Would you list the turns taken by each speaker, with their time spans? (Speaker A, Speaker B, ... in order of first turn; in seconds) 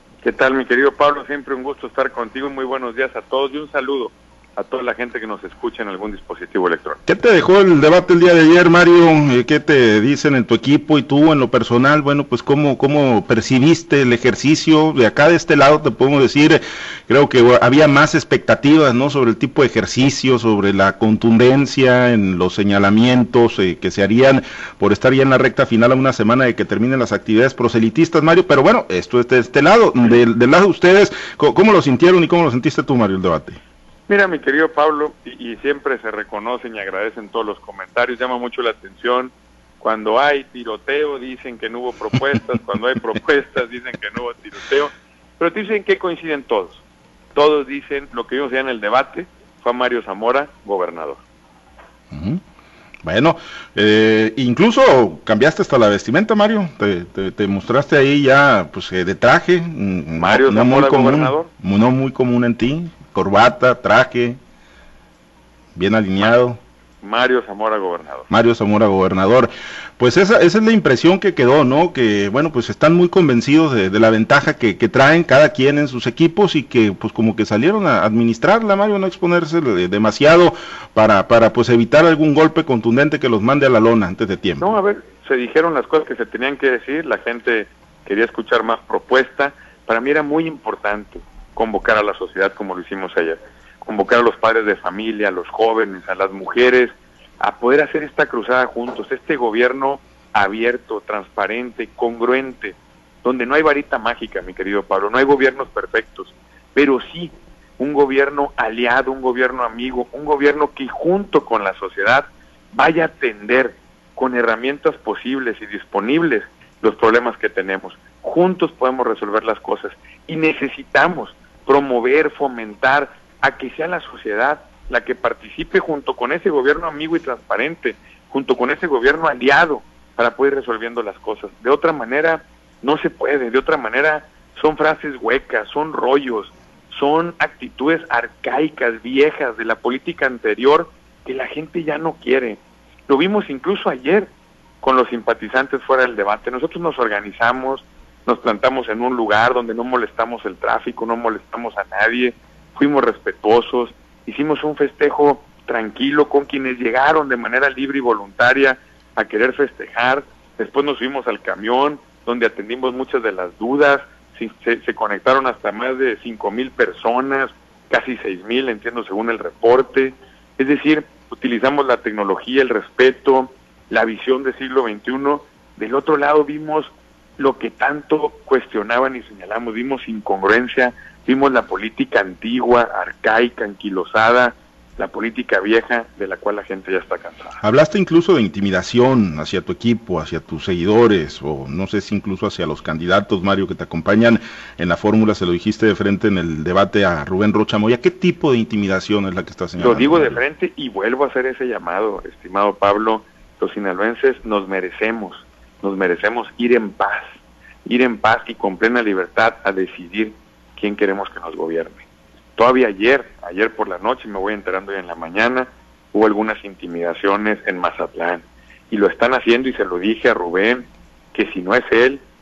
Speaker A: 0.2-7.0, 34.1-46.8, 47.4-51.2, 60.2-61.5, 67.0-68.3, 84.6-144.3, 144.8-187.6, 199.8-212.1, 212.6-222.2
Speaker B: 7.1-33.6, 52.1-52.4, 53.0-64.4, 65.8-66.6, 68.3-84.8, 187.6-200.4